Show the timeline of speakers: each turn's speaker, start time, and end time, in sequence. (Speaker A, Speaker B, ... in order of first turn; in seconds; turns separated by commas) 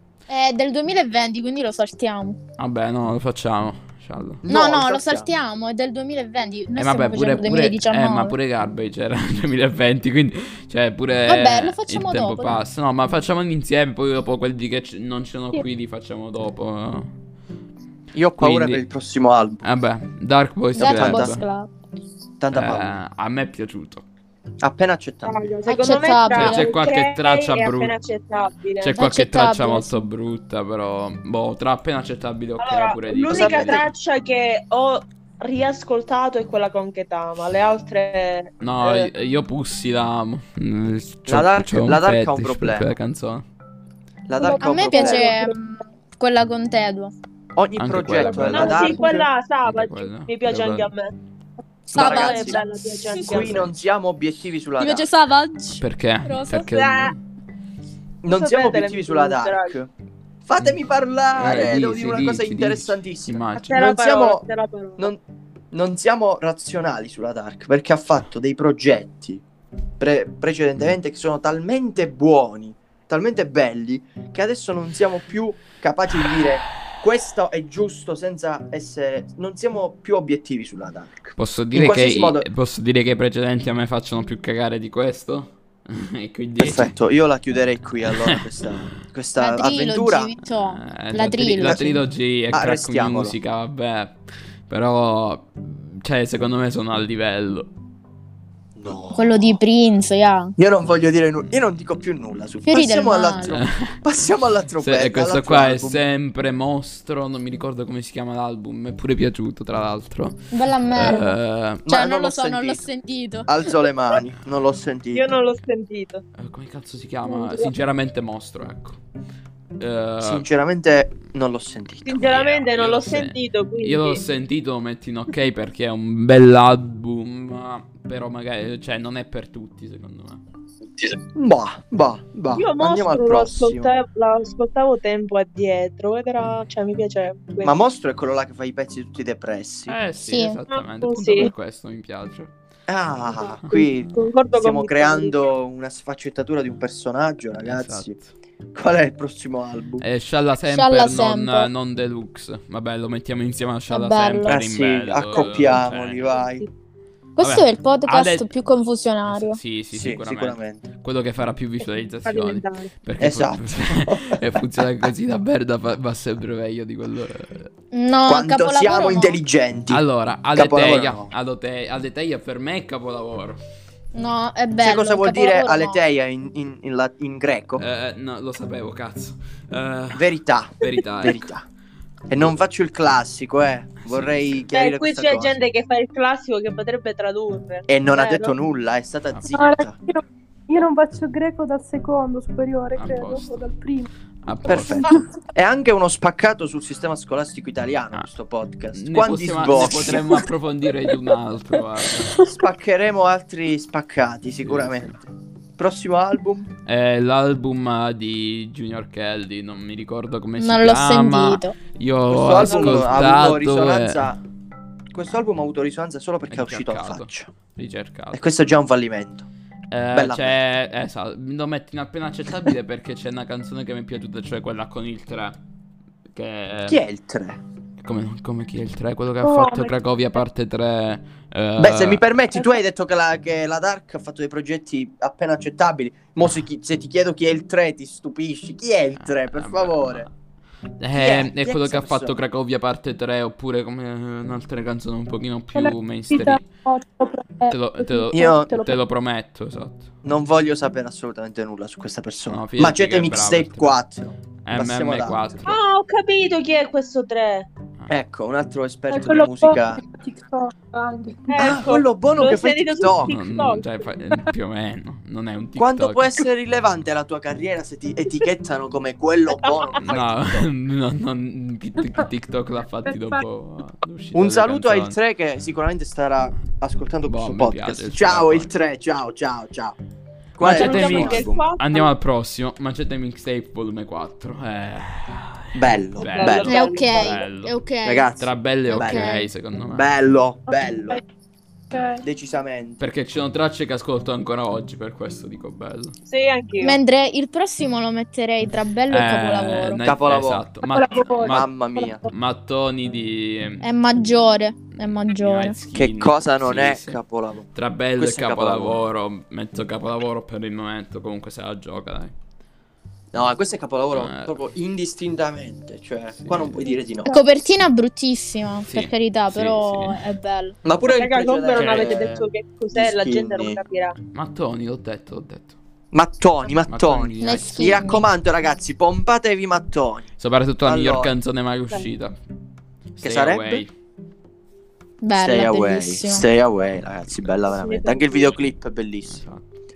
Speaker A: 0.3-2.4, Speaker B: 2.6-4.4, Speaker C: 4.4-5.3, Speaker A: 4.5-8.3, Speaker B: 6.8-17.1, Speaker A: 11.3-12.6, Speaker C: 18.1-19.6, Speaker B: 18.4-18.8, Speaker B: 19.6-21.4, Speaker A: 20.8-21.7, Speaker C: 20.8-21.4, Speaker C: 22.4-23.0, Speaker B: 22.5-24.0, Speaker C: 24.6-25.5, Speaker D: 25.2-28.9, Speaker A: 25.6-26.6, Speaker B: 26.3-28.0, Speaker B: 28.8-33.9, Speaker A: 28.9-30.1, Speaker D: 32.6-39.1, Speaker C: 33.3-33.9, Speaker B: 38.6-43.4, Speaker C: 41.3-42.9, Speaker C: 44.3-45.3, Speaker E: 44.4-45.5, Speaker A: 44.6-47.1, Speaker D: 44.8-45.3, Speaker C: 47.5-49.3, Speaker B: 47.8-48.9, Speaker E: 48.3-49.2, Speaker D: 48.5-51.1, Speaker B: 49.6-50.9, Speaker C: 51.9-52.6, Speaker A: 51.9-53.5, Speaker D: 51.9-53.7, Speaker C: 53.1-55.1, Speaker A: 54.8-56.7, Speaker B: 55.8-57.2, Speaker D: 56.6-57.1, Speaker C: 58.2-59.9, Speaker D: 58.3-59.8, Speaker C: 60.5-64.4, Speaker B: 61.3-63.9, Speaker D: 63.6-65.1, Speaker C: 65.7-69.4, Speaker C: 70.0-82.5, Speaker B: 81.4-86.9, Speaker C: 86.6-90.3, Speaker B: 88.0-88.4, Speaker A: 89.4-92.0, Speaker B: 90.4-97.7, Speaker C: 91.2-93.3, Speaker C: 98.8-99.6, Speaker A: 99.1-100.5, Speaker C: 100.6-106.0, Speaker A: 102.7-103.6, Speaker B: 103.5-104.0, Speaker B: 104.8-111.8, Speaker A: 110.5-111.4, Speaker C: 111.8-112.8, Speaker A: 111.9-113.5, Speaker C: 113.5-115.4, Speaker D: 115.1-116.2, Speaker B: 116.4-119.0, Speaker B: 119.8-120.4, Speaker C: 120.2-122.3, Speaker D: 122.0-124.2, Speaker B: 122.1-130.4, Speaker C: 131.0-133.9, Speaker D: 132.5-137.7, Speaker C: 137.6-140.0, Speaker B: 139.9-142.5, Speaker A: 140.3-140.6, Speaker D: 140.7-141.5, Speaker C: 142.9-148.2, Speaker D: 143.3-145.4, Speaker B: 147.6-148.3, Speaker C: 148.7-150.1, Speaker B: 150.0-156.4, Speaker A: 150.7-151.7, Speaker A: 153.9-154.6, Speaker C: 154.4-156.6, Speaker D: 155.4-155.6, Speaker D: 156.3-156.7, Speaker A: 157.4-159.6, Speaker B: 157.4-158.5, Speaker B: 159.2-167.7, Speaker C: 159.9-160.9, Speaker D: 162.2-162.9, Speaker C: 163.2-164.6, Speaker A: 167.9-169.4, Speaker C: 168.2-170.0, Speaker B: 169.9-173.6, Speaker C: 170.5-171.3, Speaker A: 174.1-176.0, Speaker C: 174.8-177.8, Speaker B: 177.8-181.5, Speaker C: 180.1-181.6, Speaker C: 182.3-185.6, Speaker B: 184.0-184.7, Speaker D: 184.7-188.6, Speaker C: 187.9-189.9, Speaker B: 189.3-189.6, Speaker E: 189.5-194.1, Speaker B: 192.9-193.6, Speaker B: 194.4-195.2, Speaker C: 194.6-200.4, Speaker B: 198.9-202.4, Speaker C: 202.4-205.2, Speaker B: 204.6-205.1, Speaker C: 205.8-206.7, Speaker B: 206.9-214.3, Speaker A: 210.6-211.8, Speaker C: 212.3-214.4, Speaker D: 212.6-213.2, Speaker C: 215.1-217.5, Speaker B: 216.5-218.4, Speaker C: 218.3-219.4, Speaker B: 219.9-225.6, Speaker C: 220.1-220.6, Speaker B: 226.3-227.0, Speaker C: 226.9-227.6, Speaker B: 228.0-232.2, Speaker E: 229.4-229.9, Speaker C: 231.8-240.2, Speaker B: 239.2-240.3, Speaker B: 241.0-246.6, Speaker C: 241.1-242.3, Speaker E: 245.7-248.9, Speaker B: 247.7-250.1, Speaker C: 248.3-248.8, Speaker C: 250.2-255.6, Speaker B: 252.5-254.0, Speaker B: 254.6-255.8, Speaker D: 255.7-257.7, Speaker C: 258.1-260.0, Speaker E: 259.1-261.8, Speaker D: 261.5-263.9, Speaker C: 261.6-263.3, Speaker B: 263.2-266.4, Speaker C: 265.8-270.7, Speaker B: 270.0-275.2, Speaker E: 273.1-273.4, Speaker C: 274.3-279.9, Speaker B: 277.2-278.7, Speaker C: 280.6-281.6, Speaker B: 280.6-287.7, Speaker D: 280.6-282.1, Speaker C: 285.7-286.8, Speaker D: 286.2-287.4, Speaker A: 286.7-288.3, Speaker C: 288.0-289.3, Speaker B: 288.4-290.1, Speaker A: 288.9-289.5, Speaker C: 289.9-291.2, Speaker E: 290.7-291.2, Speaker E: 291.9-292.2, Speaker C: 292.2-293.0, Speaker B: 293.0-296.1, Speaker D: 296.3-297.0, Speaker A: 296.8-300.0, Speaker B: 299.1-301.7, Speaker C: 300.0-300.7, Speaker E: 300.9-302.3, Speaker C: 301.4-302.2, Speaker B: 302.2-303.8, Speaker A: 303.8-305.8, Speaker B: 305.0-307.2, Speaker C: 305.9-309.0, Speaker B: 307.7-312.3, Speaker C: 313.3-317.4, Speaker B: 314.1-314.6, Speaker B: 316.4-316.9, Speaker A: 317.3-320.8, Speaker B: 318.9-320.2, Speaker C: 320.8-323.8, Speaker D: 321.1-324.1, Speaker B: 321.8-322.1, Speaker B: 324.3-325.8, Speaker C: 326.1-330.3, Speaker B: 326.9-328.2, Speaker A: 327.4-328.2, Speaker B: 330.4-332.3, Speaker C: 330.8-331.3, Speaker B: 333.1-333.9, Speaker C: 333.2-333.8, Speaker A: 335.2-336.4, Speaker C: 335.3-339.4, Speaker D: 337.6-338.6, Speaker B: 339.3-339.7